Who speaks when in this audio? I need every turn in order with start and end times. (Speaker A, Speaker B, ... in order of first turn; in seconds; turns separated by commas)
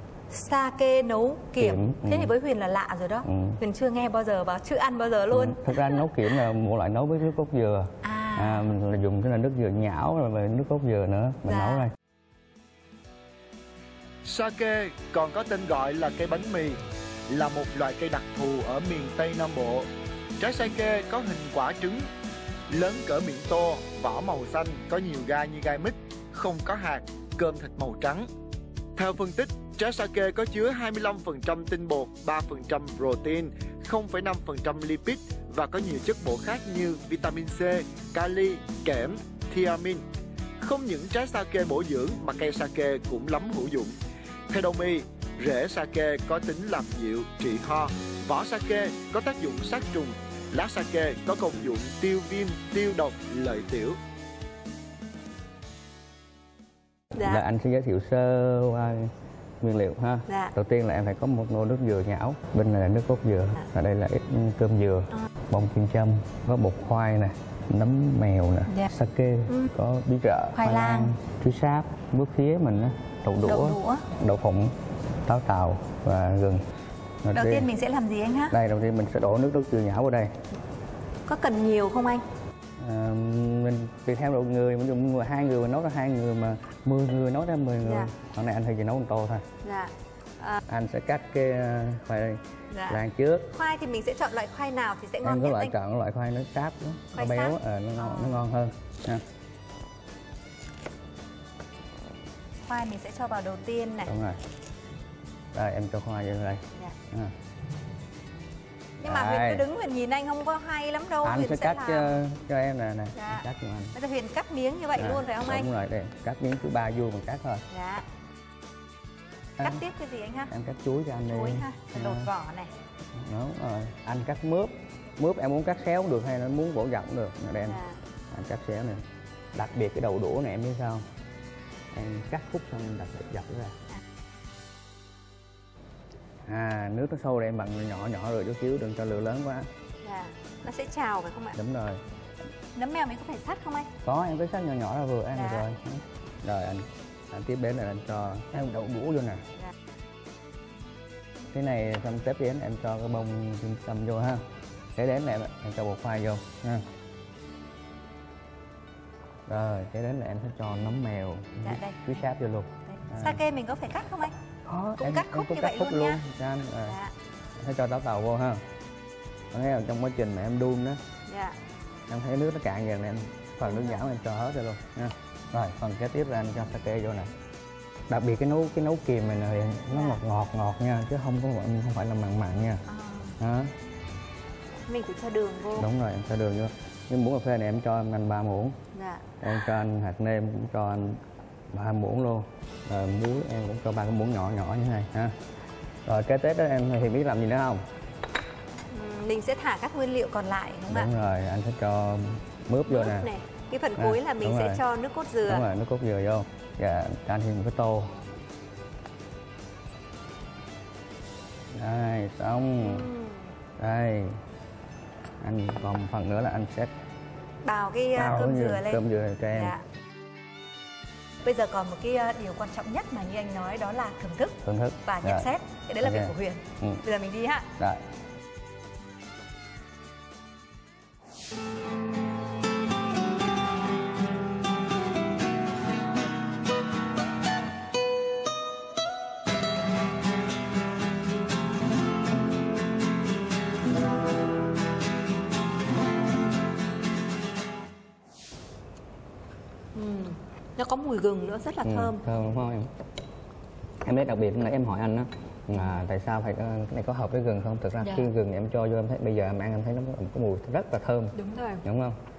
Speaker A: 0.3-6.2, Speaker B: 1.6-2.3, Speaker B: 3.2-3.6, Speaker B: 5.3-11.9, Speaker A: 8.0-8.7, Speaker A: 11.5-11.9, Speaker C: 14.2-19.9, Speaker C: 20.4-22.1, Speaker C: 22.7-28.3, Speaker C: 29.0-40.0, Speaker C: 40.6-44.0, Speaker C: 44.5-54.0, Speaker A: 57.1-57.4, Speaker B: 57.2-76.6, Speaker A: 60.3-60.5, Speaker A: 70.5-71.1, Speaker A: 73.4-74.1, Speaker B: 77.2-77.7, Speaker A: 77.3-78.5, Speaker B: 78.5-80.3, Speaker A: 81.3-82.2, Speaker B: 82.8-89.5, Speaker A: 87.8-88.1, Speaker A: 89.6-90.6, Speaker B: 90.7-93.5, Speaker A: 92.7-95.7, Speaker B: 95.2-99.2, Speaker A: 97.1-98.5, Speaker A: 102.7-104.1, Speaker B: 104.0-104.4, Speaker B: 105.5-107.3, Speaker B: 109.0-109.7, Speaker A: 109.0-112.2, Speaker B: 111.2-113.9, Speaker A: 113.1-115.7, Speaker B: 115.0-117.6, Speaker A: 117.7-118.0, Speaker A: 119.6-120.5, Speaker B: 120.5-122.3, Speaker A: 121.3-122.7, Speaker B: 123.2-129.0, Speaker A: 127.7-128.0, Speaker B: 129.5-131.1, Speaker B: 131.9-133.7, Speaker B: 136.5-139.7, Speaker A: 140.0-141.6, Speaker B: 141.6-142.0, Speaker A: 142.7-143.9, Speaker B: 144.0-149.4, Speaker A: 145.3-145.7, Speaker B: 151.5-154.4, Speaker B: 154.9-156.8, Speaker B: 159.5-163.4, Speaker A: 161.6-162.0, Speaker A: 162.9-164.3, Speaker B: 164.7-167.0, Speaker A: 165.0-166.2, Speaker A: 166.8-167.1, Speaker B: 167.6-168.6, Speaker B: 169.5-171.0, Speaker A: 171.3-171.6, Speaker B: 172.1-177.3, Speaker A: 173.6-174.0, Speaker B: 178.1-182.8, Speaker A: 179.9-180.2, Speaker A: 182.8-183.3, Speaker B: 183.4-183.7, Speaker A: 184.9-185.9, Speaker B: 185.8-188.8, Speaker A: 188.9-189.5, Speaker B: 189.4-191.2, Speaker B: 191.7-195.3, Speaker B: 196.1-197.8, Speaker A: 198.9-201.1, Speaker B: 200.9-203.3, Speaker A: 202.8-205.7, Speaker B: 204.0-204.8, Speaker B: 205.5-208.2, Speaker B: 211.8-213.1, Speaker A: 212.8-213.5, Speaker B: 213.8-214.4, Speaker B: 215.4-216.9, Speaker A: 217.6-219.8, Speaker B: 218.2-219.8, Speaker A: 221.4-227.7, Speaker B: 224.6-227.0, Speaker A: 249.9-252.2, Speaker B: 251.8-252.9, Speaker B: 254.0-262.2, Speaker A: 258.0-258.3, Speaker A: 261.3-261.8